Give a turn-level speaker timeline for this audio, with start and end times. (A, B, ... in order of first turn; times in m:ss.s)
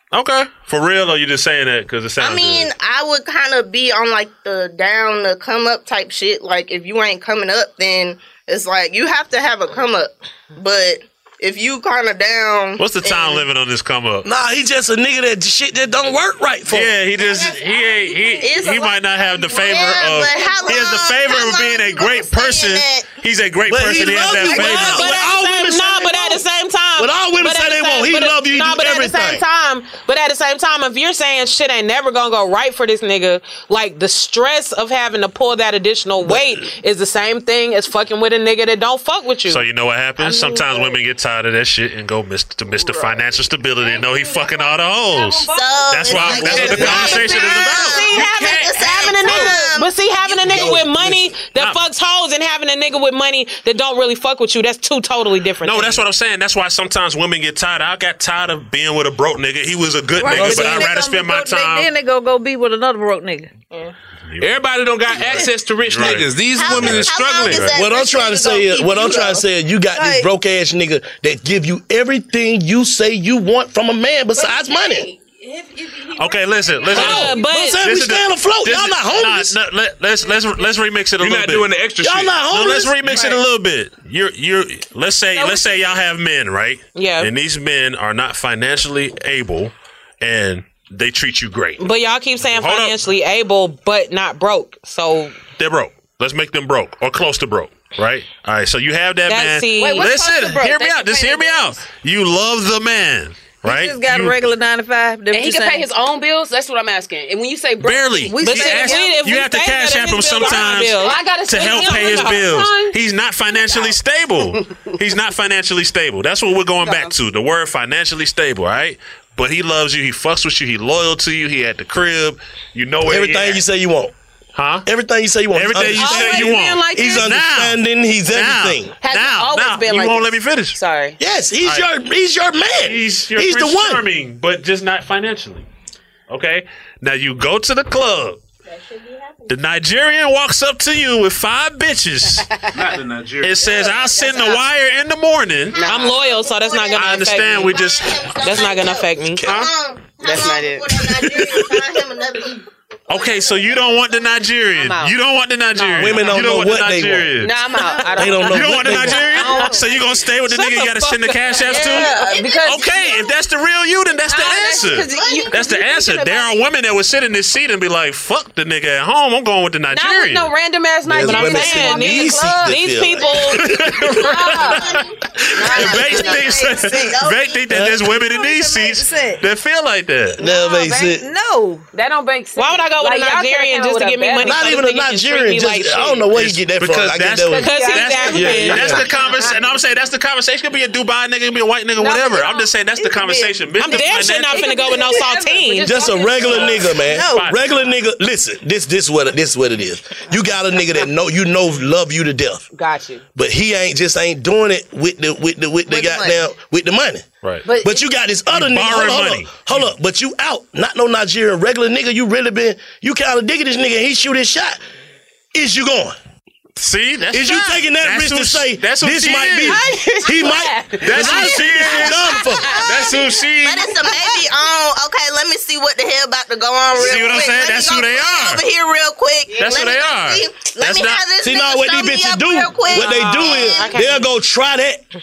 0:00.1-0:02.7 A
0:02.2-0:13.5 B
0:12.8-0:14.3 A
0:14.2-0:16.9 C
0:16.7-0:25.1 A
0:17.4-0:23.2 B
0:23.7-0:26.4 C
0:24.5-0:24.8 B
0:24.5-0:39.6 D
0:27.0-0:29.4 C
0:36.2-0:36.5 C
0:39.5-0:48.1 A
0:40.2-0:40.9 B
0:45.2-0:45.8 E
0:45.4-0:50.8 B
0:46.1-0:47.5 F
0:47.8-0:56.0 D
0:48.1-0:49.6 F
0:50.6-0:50.8 C
0:51.4-0:51.8 A
0:55.6-1:01.9 A
1:00.2-1:03.6 G
1:00.3-1:00.9 C
1:04.4-1:07.8 F
1:05.1-1:07.7 A
1:06.5-1:09.4 B
1:07.8-1:15.1 C
1:09.9-1:10.3 G
1:16.1-1:21.8 A
1:16.9-1:17.8 D
1:16.9-1:19.5 C
1:17.0-1:17.4 E
1:21.2-1:22.4 F
1:22.0-1:23.3 C
1:22.4-1:31.9 A
1:25.4-1:25.8 E
1:27.0-1:27.3 D
1:31.8-1:35.4 D
1:32.4-1:33.0 A
1:35.6-1:44.4 A
1:39.3-1:40.1 D
1:39.8-1:41.7 E
1:43.6-1:45.9 G
1:45.3-1:49.1 E
1:47.8-2:03.6 A
1:48.2-1:49.1 G
1:48.4-1:52.7 D
1:50.5-1:52.9 E
1:53.6-1:53.9 E
1:56.8-1:57.1 E
2:03.1-2:04.1 C
2:04.6-2:04.9 A
2:04.8-2:08.9 C
2:05.5-2:10.8 A
2:05.8-2:07.3 E
2:09.0-2:11.2 E
2:11.2-2:14.0 C
2:11.6-2:11.9 A
2:12.8-2:15.7 A
2:16.3-2:18.4 A
2:18.9-2:19.5 B
2:19.5-2:22.6 A
2:22.7-2:23.9 F
2:23.4-2:25.8 A
2:24.3-2:24.6 E
2:25.8-2:26.2 E
2:25.8-2:27.8 D
2:26.1-2:32.6 B
2:27.0-2:28.4 A
2:28.4-2:29.4 D
2:30.2-2:31.0 E
2:33.1-2:42.1 A
2:33.2-2:33.5 B
2:34.7-2:35.2 E
2:35.8-2:36.2 E
2:36.0-2:37.3 C
2:37.4-2:40.2 E
2:38.2-2:39.3 C
2:40.5-2:41.2 D
2:41.5-2:43.2 E
2:42.1-2:42.6 B
2:42.6-2:50.5 A
2:44.3-2:46.6 E
2:45.1-2:45.5 B
2:49.9-2:52.9 E
2:51.1-2:54.1 C
2:51.2-2:53.7 D
2:53.3-3:00.4 A
2:54.2-2:55.0 E
2:54.5-2:55.2 B
2:55.6-2:56.6 E
2:55.7-2:57.6 B
2:55.8-2:57.3 G
2:57.7-2:58.1 C
2:58.1-2:59.4 G
3:00.4-3:01.3 C
3:00.5-3:01.1 E
3:01.1-3:01.9 G
3:01.9-3:04.8 E
3:02.6-3:06.3 D
3:04.4-3:07.7 C
3:06.3-3:14.8 A
3:07.6-3:09.0 D
3:07.6-3:09.6 E
3:08.5-3:09.0 C
3:12.0-3:12.7 E
3:13.0-3:13.6 G
3:13.8-3:16.1 D
3:14.5-3:16.9 E
3:14.6-3:15.5 G
3:15.8-3:22.6 C
3:16.2-3:17.6 G
3:16.5-3:17.6 A
3:22.7-3:23.2 E
3:23.4-3:27.3 C
3:25.9-3:26.4 G
3:27.6-3:28.1 E
3:27.8-3:34.8 C
3:28.5-3:29.9 A
3:35.5-3:36.2 C
3:36.8-3:39.9 A
3:37.3-3:42.8 C
3:39.8-3:41.6 E
3:39.9-3:40.2 G
3:41.0-3:44.3 A
3:41.8-3:54.0 B
3:42.6-3:43.0 E
3:47.0-3:48.6 A
3:49.5-3:51.2 A
3:51.4-3:55.0 C
3:52.9-3:54.3 D